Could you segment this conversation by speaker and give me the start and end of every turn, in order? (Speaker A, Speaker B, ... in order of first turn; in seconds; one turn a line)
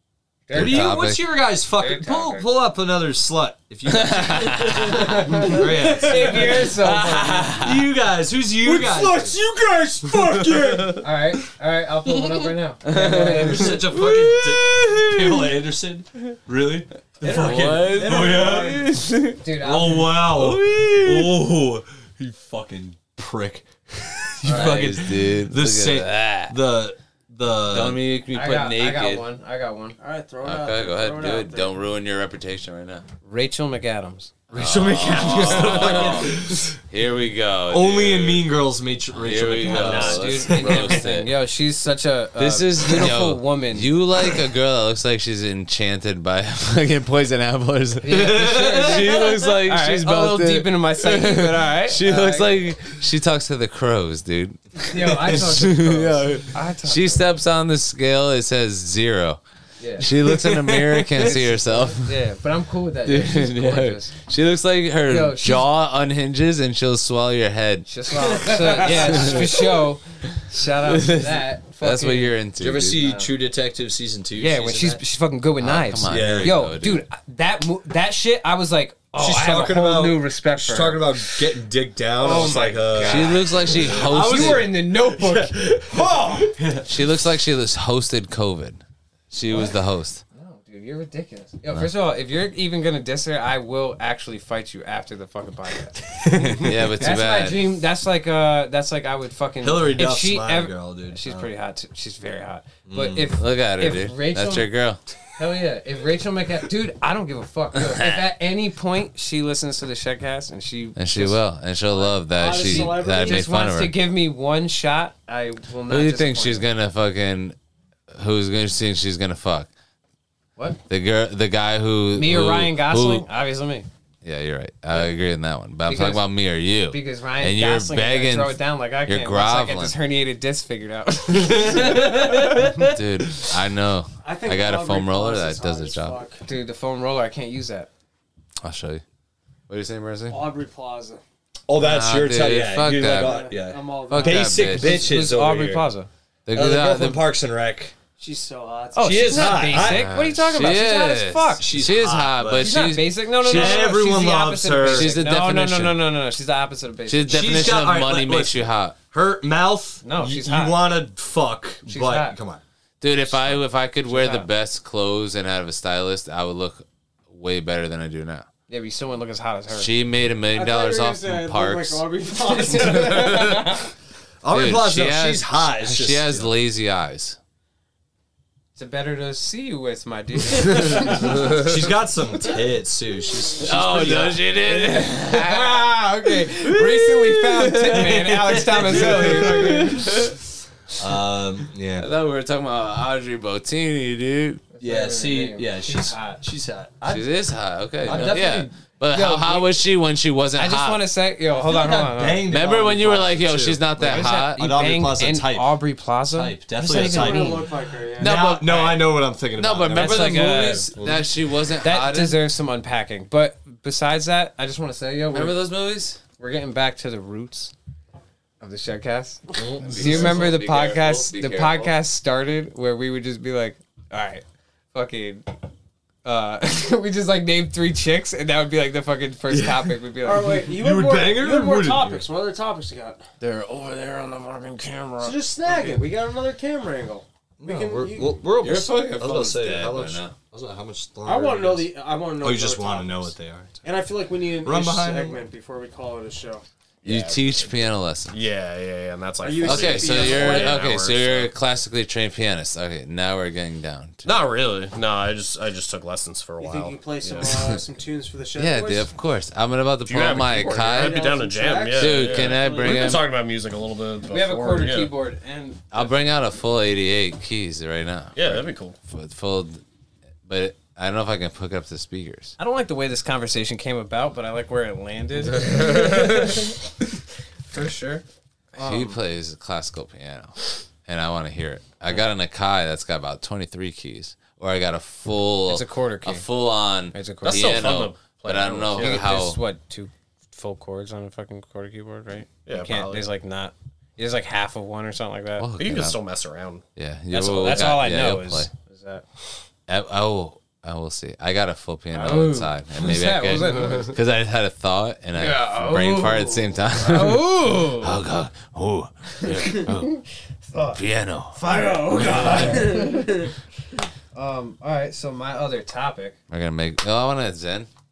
Speaker A: 0.5-1.0
Speaker B: 0.5-1.3
Speaker C: 0.5-6.7
Speaker A: 1.7-2.5
Speaker B: 3.9-5.0
Speaker A: 5.2-7.5
Speaker D: 5.4-6.5
Speaker B: 6.6-7.8
Speaker C: 7.6-9.4
Speaker D: 8.6-11.1
Speaker A: 11.0-13.8
Speaker B: 12.9-15.5
Speaker C: 13.0-18.9
Speaker B: 17.2-19.4
Speaker D: 17.2-19.0
Speaker A: 19.4-20.2
Speaker C: 19.5-28.0
Speaker B: 20.3-21.4
Speaker B: 24.4-26.6
Speaker B: 27.7-29.3
Speaker A: 28.3-30.0
Speaker D: 30.0-31.8
Speaker B: 30.4-33.0
Speaker A: 33.2-34.3
Speaker B: 34.5-38.5
Speaker C: 34.5-36.8
Speaker C: 37.7-41.1
Speaker B: 39.2-41.3
Speaker A: 39.7-43.9
Speaker B: 42.4-59.4
Speaker A: 48.0-52.6
Speaker C: 48.1-49.3
Speaker A: 54.8-57.3
Speaker C: 55.0-55.8
Speaker A: 59.8-60.1
Speaker B: 60.0-62.1
Speaker A: 61.2-64.1
Speaker B: 63.1-67.9
Speaker A: 65.1-65.7
Speaker A: 67.9-72.4
Speaker D: 68.4-69.0
Speaker B: 68.8-69.6
Speaker B: 70.9-73.0
Speaker C: 72.6-75.0
Speaker A: 72.9-73.3
Speaker A: 74.4-81.4
Speaker B: 75.6-77.0
Speaker C: 76.1-76.7
Speaker C: 79.1-87.0
Speaker A: 82.2-86.5
Speaker B: 83.0-84.7
Speaker B: 86.9-90.2
Speaker A: 90.3-104.7
Speaker B: 96.3-97.7
Speaker C: 99.6-101.5
Speaker C: 102.9-103.4
Speaker B: 103.3-105.0
Speaker A: 105.4-111.4
Speaker B: 107.8-108.2
Speaker B: 111.0-113.9
Speaker A: 111.9-116.7
Speaker D: 112.3-113.5
Speaker B: 115.9-117.6
Speaker B: 118.1-119.7
Speaker B: 120.9-123.3
Speaker A: 122.2-123.9
Speaker B: 124.2-129.9
Speaker A: 125.9-126.3
Speaker A: 126.9-132.7
Speaker C: 131.3-132.9
Speaker B: 132.8-136.2
Speaker D: 134.2-136.4
Speaker A: 136.4-137.9
Speaker B: 138.6-139.0
Speaker B: 139.7-140.5
Speaker D: 140.3-141.2
Speaker C: 141.7-145.9
Speaker B: 141.8-143.5
Speaker D: 143.0-144.8
Speaker B: 144.1-145.0
Speaker A: 144.7-146.1
Speaker B: 146.5-147.3
Speaker C: 146.5-147.9
Speaker D: 148.2-149.7
Speaker A: 148.9-151.7
Speaker C: 149.0-150.1
Speaker B: 149.8-153.9
Speaker C: 151.6-155.1
Speaker A: 152.6-157.5
Speaker B: 154.9-156.1
Speaker B: 157.1-159.0
Speaker C: 157.3-162.6
Speaker A: 160.0-160.8
Speaker A: 161.9-162.4
Speaker B: 163.0-168.5
Speaker C: 163.3-163.6
Speaker A: 164.1-164.5
Speaker A: 168.7-169.9
Speaker B: 169.7-172.1
Speaker D: 170.5-173.7
Speaker A: 172.5-173.8
Speaker C: 174.4-176.5
Speaker B: 174.5-177.4
Speaker A: 178.8-181.4
Speaker C: 181.0-184.5
Speaker B: 183.6-186.0
Speaker A: 184.1-190.2
Speaker C: 186.7-190.3
Speaker B: 186.8-187.2
Speaker B: 188.9-190.3
Speaker C: 191.0-192.1
Speaker B: 192.0-194.6
Speaker A: 194.7-196.4
Speaker C: 194.8-197.2
Speaker B: 197.1-201.1
Speaker C: 198.0-198.7
Speaker A: 198.1-199.8
Speaker A: 200.6-202.5
Speaker C: 201.5-207.7
Speaker B: 202.5-204.6
Speaker A: 204.0-207.6
Speaker D: 206.9-208.4
Speaker B: 208.2-212.4
Speaker C: 208.2-211.3
Speaker A: 209.9-210.9
Speaker A: 211.8-215.6
Speaker B: 215.3-216.2
Speaker A: 216.4-217.7
Speaker A: 218.6-225.5
Speaker C: 219.5-220.6
Speaker B: 219.8-221.9
Speaker A: 226.2-230.6
Speaker C: 229.5-230.0
Speaker D: 230.2-233.3
Speaker C: 230.6-232.3
Speaker A: 233.4-236.0
Speaker D: 235.2-238.3
Speaker C: 237.6-243.8
Speaker B: 238.6-240.3
Speaker D: 241.2-243.3
Speaker D: 243.8-246.6
Speaker C: 244.6-245.4
Speaker E: 247.0-247.8
Speaker B: 247.1-248.4
Speaker E: 248.3-251.5
Speaker D: 249.4-250.9
Speaker B: 249.6-254.3
Speaker E: 254.2-257.7
Speaker D: 256.6-259.1
Speaker B: 258.6-261.2
Speaker E: 260.1-265.1
Speaker D: 260.8-263.2
Speaker B: 261.9-263.3
Speaker A: 264.3-266.1
Speaker B: 265.9-269.8
Speaker E: 268.4-269.0
Speaker B: 270.5-272.6
Speaker A: 272.6-276.7
Speaker A: 277.7-278.2
Speaker A: 278.8-279.2
Speaker B: 278.8-289.6
Speaker A: 285.7-286.5
Speaker A: 287.1-288.0
Speaker E: 287.4-289.4
Speaker A: 288.9-295.7
Speaker E: 292.7-293.3
Speaker B: 295.6-296.2
Speaker E: 295.8-296.8
Speaker B: 297.0-298.7
Speaker A: 297.3-299.2
Speaker E: 297.7-298.0
Speaker B: 299.9-310.2
Speaker A: 302.1-304.1
Speaker A: 305.4-308.1
Speaker A: 310.7-311.0
Speaker B: 310.9-311.6
Speaker A: 311.6-313.3
Speaker D: 311.6-313.5
Speaker A: 314.3-316.4
Speaker B: 316.5-317.9